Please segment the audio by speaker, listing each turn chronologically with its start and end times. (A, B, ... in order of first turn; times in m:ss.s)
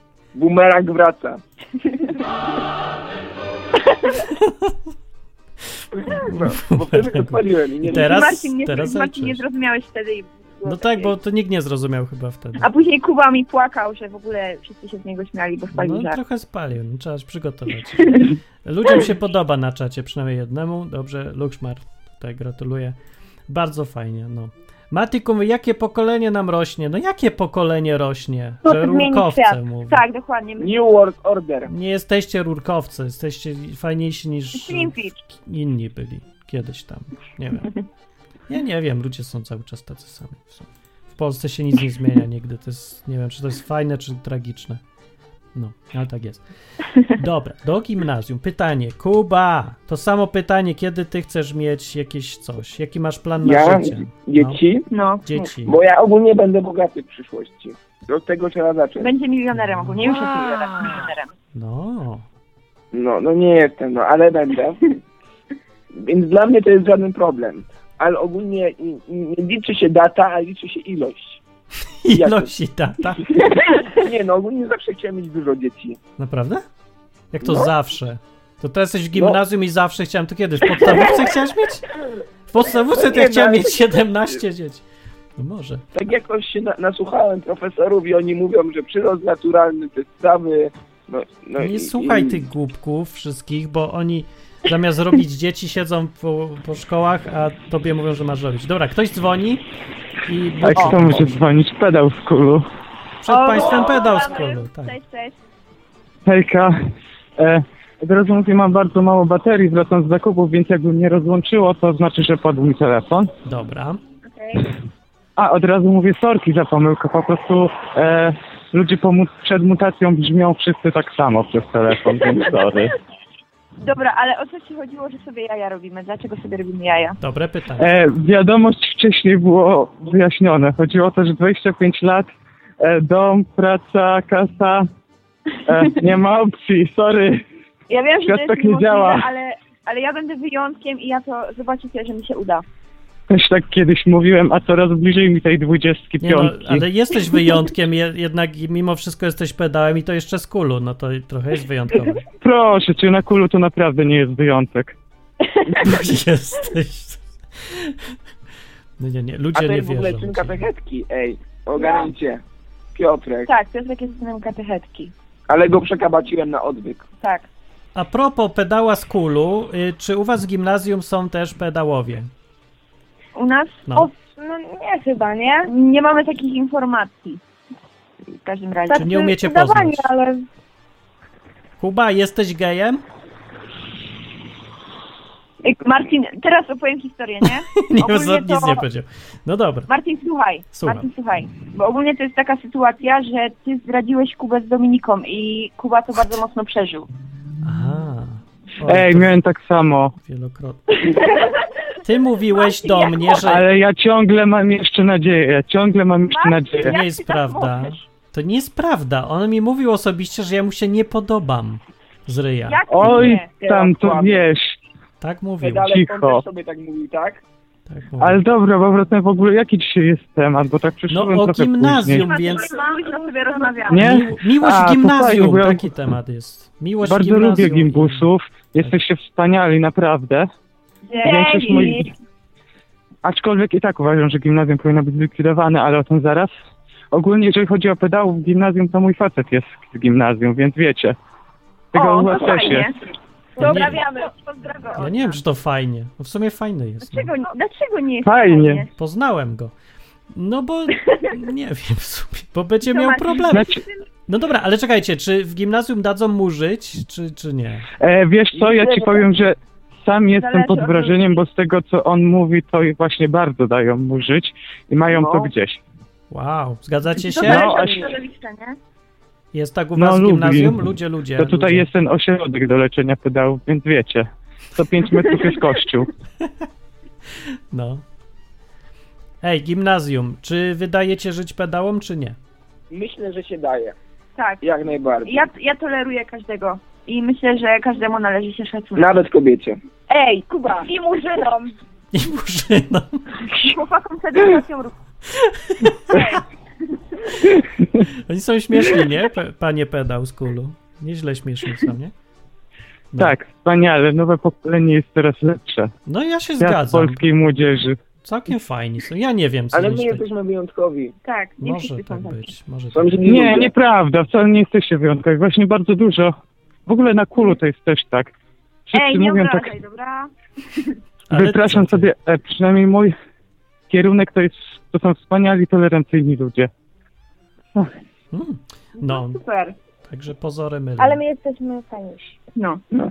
0:00.3-0:01.4 A
0:04.4-0:04.7 B
0:05.9-0:08.3 A
0:06.2-0:09.4 B
0:07.9-0:11.1 C
0:10.6-0:12.7 B
0:12.6-0:16.2 C
0:15.7-0:22.9 B
0:18.0-0:18.3 C
0:23.5-0:30.0 B
0:28.6-0:29.6 D
0:29.9-0:30.7 C
0:30.6-0:31.7 A
0:31.7-0:37.7 B
0:34.5-0:35.2 C
0:38.5-0:44.8 B
0:45.5-0:54.6 B
0:53.4-0:54.9 A
0:54.9-0:55.5 C
0:55.2-0:55.8 B
0:55.6-0:59.1 A
0:59.0-1:01.3 C
0:59.5-1:00.1 B
1:01.5-1:02.2 B
1:02.9-1:04.8 A
1:05.9-1:11.4 A
1:12.0-1:13.3 B
1:12.1-1:12.5 A
1:13.4-1:16.0 A
1:16.2-1:16.6 B
1:17.3-1:21.9 B
1:17.4-1:17.7 A
1:19.1-1:19.4 A
1:22.5-1:24.8 B
1:22.9-1:23.9 A
1:25.4-1:25.8 B
1:25.9-1:32.4 A
1:31.6-1:39.6 B
1:40.2-1:41.3 B
1:40.6-1:42.6 E
1:43.2-1:44.9 B
1:43.3-1:45.3 C
1:46.2-1:46.8 E
1:47.4-1:53.3 E
1:53.4-1:54.0 B
1:54.2-1:54.6 C
1:55.4-2:03.0 E
2:03.8-2:07.2 C
2:07.2-2:07.9 B
2:07.8-2:12.3 E
2:12.8-2:14.9 E
2:15.6-2:17.4 E
2:17.9-2:22.6 C
2:18.2-2:19.3 E
2:23.3-2:26.8 E
2:26.2-2:32.2 B
2:32.4-2:34.9 E
2:35.7-2:38.1 B
2:39.0-2:40.6 B
2:39.5-2:42.4 A
2:42.9-2:43.5 A
2:43.4-2:45.1 C
2:45.5-2:47.0 A
2:47.2-2:47.5 C
2:47.9-2:52.3 B
2:53.3-2:53.8 C
2:53.9-2:55.7 D
2:55.6-2:57.4 C
2:58.3-2:59.1 C
2:58.9-3:00.4 D
2:59.0-3:00.1 B
3:01.8-3:03.0 B
3:05.6-3:08.8 C
3:07.7-3:09.9 B
3:09.9-3:17.1 C
3:10.7-3:11.1 B
3:17.6-3:19.4 B
3:18.9-3:20.1 E
3:20.2-3:21.1 B
3:21.0-3:21.6 C
3:22.0-3:23.6 B
3:22.5-3:23.4 C
3:23.4-3:27.0 E
3:26.3-3:28.0 C
3:26.8-3:33.4 B
3:32.7-3:33.5 C
3:32.9-3:34.8 E
3:33.5-3:34.4 A
3:35.2-3:35.9 B
3:35.6-3:37.4 A
3:35.9-3:36.4 E
3:37.9-3:38.4 B
3:38.2-3:42.3 E
3:41.1-3:42.7 B
3:42.2-3:44.0 C
3:42.4-3:43.9 D
3:43.9-3:45.9 E
3:43.9-3:48.3 B
3:47.0-3:50.5 E
3:51.1-3:52.1 C
3:51.2-3:52.1 E
3:51.2-3:52.0 D
3:53.2-3:56.5 E
3:57.1-4:01.2 E
4:01.9-4:02.9 E
4:01.9-4:03.0 C
4:03.6-4:05.1 D
4:03.6-4:05.2 C
4:03.6-4:04.0 B
4:05.0-4:07.3 B
4:07.1-4:08.9 C
4:08.2-4:08.8 E
4:09.0-4:09.7 B
4:10.3-4:17.9 B
4:12.9-4:13.8 C
4:13.5-4:13.8 E
4:18.0-4:25.8 E
4:18.5-4:19.3 A
4:20.3-4:21.4 C
4:25.1-4:25.5 A
4:26.3-4:27.7 B
4:27.3-4:28.8 C
4:27.4-4:28.1 E
4:29.5-4:31.9 B
4:30.0-4:36.1 E
4:37.7-4:38.0 B
4:39.4-4:42.4 B
4:42.9-4:44.0 A
4:44.4-4:44.6 C
4:44.6-4:45.4 A
4:45.2-4:49.1 C
4:48.9-4:49.8 A
4:50.1-4:50.9 C
4:50.8-4:51.7 D
4:52.1-4:53.2 B
4:53.4-4:54.9 C
4:55.3-4:56.2 B
4:56.1-4:56.4 C
4:58.1-5:02.1 B
5:03.2-5:05.9 E
5:06.1-5:07.3 B
5:06.6-5:08.0 E
5:08.2-5:10.2 B
5:09.7-5:11.1 A
5:11.2-5:12.5 C
5:11.6-5:13.4 B
5:12.9-5:13.7 A
5:13.2-5:16.3 E
5:16.8-5:18.3 E
5:18.9-5:19.7 E
5:18.9-5:20.9 C
5:21.3-5:22.1 B
5:21.3-5:23.1 E
5:23.9-5:26.7 E
5:28.3-5:29.4 B
5:29.0-5:29.8 C
5:30.1-5:31.2 B
5:31.0-5:32.4 D
5:32.6-5:32.8 C